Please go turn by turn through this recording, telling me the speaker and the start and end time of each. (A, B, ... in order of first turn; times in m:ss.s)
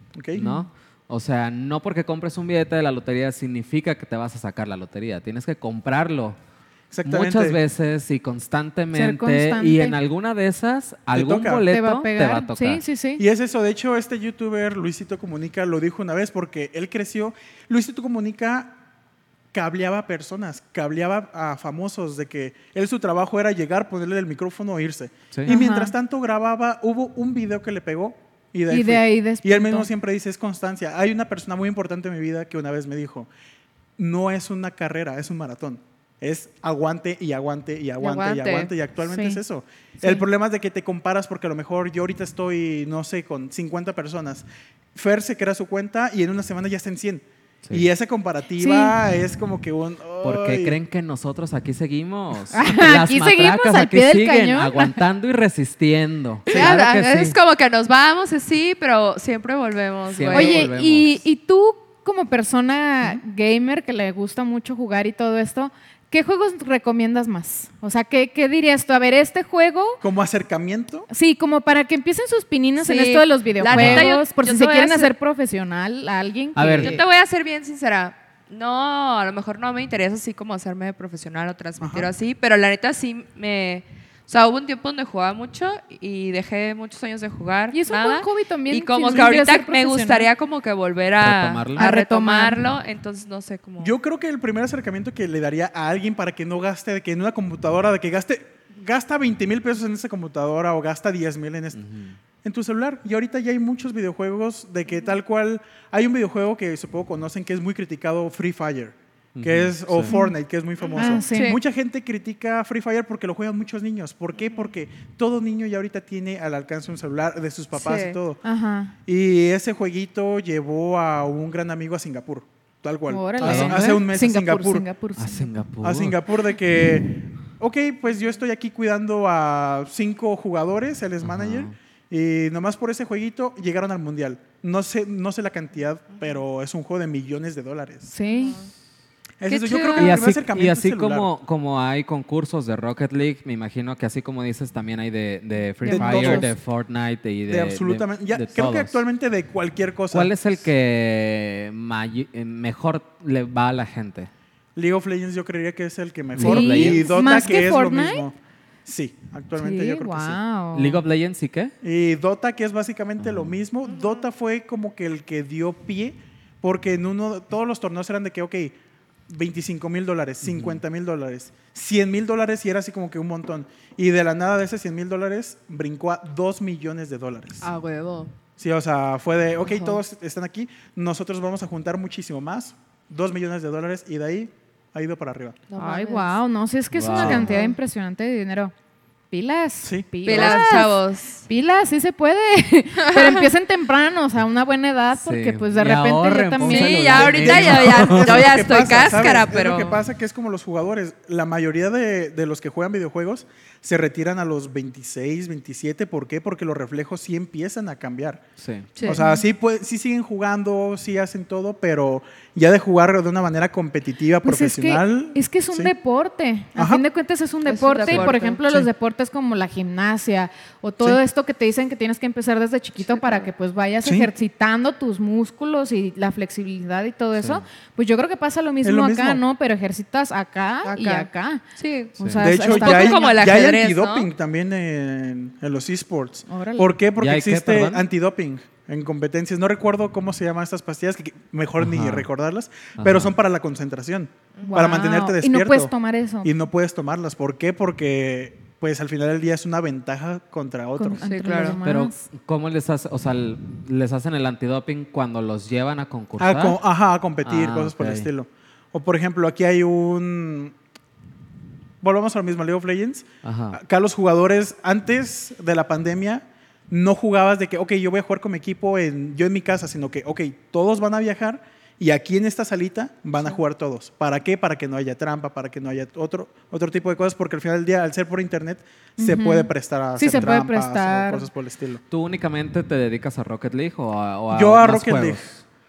0:00.2-0:00.4 A
0:00.4-0:06.4 B
0:06.9-0:07.6 A
0:07.0-0:12.8 B
0:08.9-0:10.0 C
0:11.1-0:11.7 A
0:11.7-0:13.2 C
0:13.2-0:18.8 A
0:19.5-0:33.3 A
0:25.5-0:25.9 C
0:28.7-0:29.9 C
0:34.0-0:50.8 A
0:38.0-0:38.7 D
0:39.1-0:39.4 C
0:48.6-0:49.0 C
0:50.2-0:57.4 B
0:52.5-0:55.0 C
0:56.5-1:00.7 D
1:00.1-1:01.2 B
1:00.3-1:10.0 C
1:10.0-1:11.1 A
1:11.1-1:17.0 C
1:12.8-1:15.1 D
1:13.7-1:14.1 B
1:16.6-1:17.0 B
1:16.8-1:33.9 D
1:21.8-1:22.1 A
1:27.7-1:30.3 C
1:31.2-1:31.9 B
1:31.8-1:32.6 C
1:33.8-1:41.8 A
1:41.8-1:42.2 B
1:42.4-1:58.4 A
1:49.4-1:50.1 B
1:51.0-1:51.6 D
1:51.0-1:51.6 C
1:57.7-1:58.2 D
1:58.4-1:58.9 C
1:59.1-2:04.8 A
2:03.1-2:05.5 C
2:03.4-2:04.0 B
2:05.2-2:06.2 B
2:05.8-2:18.1 A
2:11.2-2:11.7 B
2:18.1-2:18.6 C
2:19.4-2:21.3 A
2:19.5-2:20.2 D
2:20.0-2:29.0 B
2:25.8-2:26.5 C
2:25.9-2:26.5 A
2:27.5-2:30.3 A
2:30.1-2:34.3 B
2:34.8-2:40.4 A
2:36.4-2:37.2 B
2:36.4-2:38.3 C
2:39.6-2:41.0 C
2:40.7-2:41.7 B
2:41.8-2:48.8 A
2:43.2-2:43.5 B
2:43.9-2:44.2 D
2:49.3-2:57.7 A
2:50.4-2:50.8 B
2:57.6-2:58.3 D
2:58.6-3:05.6 A
3:05.7-3:06.4 D
3:05.8-3:08.7 C
3:06.9-3:07.5 B
3:07.2-3:07.8 D
3:09.3-3:17.4 C
3:09.8-3:10.7 A
3:10.2-3:11.4 D
3:13.0-3:13.5 D
3:15.2-3:18.5 B
3:16.6-3:20.0 D
3:17.2-3:28.4 A
3:28.6-3:28.9 B
3:29.0-3:35.9 A
3:29.1-3:29.4 C
3:34.4-3:51.6 C
3:36.8-3:37.0 A
3:37.7-3:38.6 D
3:43.1-3:43.5 D
3:44.0-3:44.3 A
3:47.4-3:47.6 B
3:48.8-3:49.4 A
3:50.8-3:54.3 D
3:52.2-3:53.4 C
3:52.4-4:11.2 A
3:56.5-3:56.9 C
3:57.2-3:58.0 B
4:01.8-4:02.3 B
4:03.0-4:03.3 B
4:04.7-4:06.5 C
4:11.0-4:12.2 C
4:11.2-4:11.8 D
4:11.8-4:16.8 B
4:16.4-4:20.8 A
4:17.4-4:18.3 B
4:22.0-4:42.0 A
4:23.4-4:23.8 B
4:39.2-4:41.5 C
4:42.1-4:45.6 B
4:44.5-4:45.4 A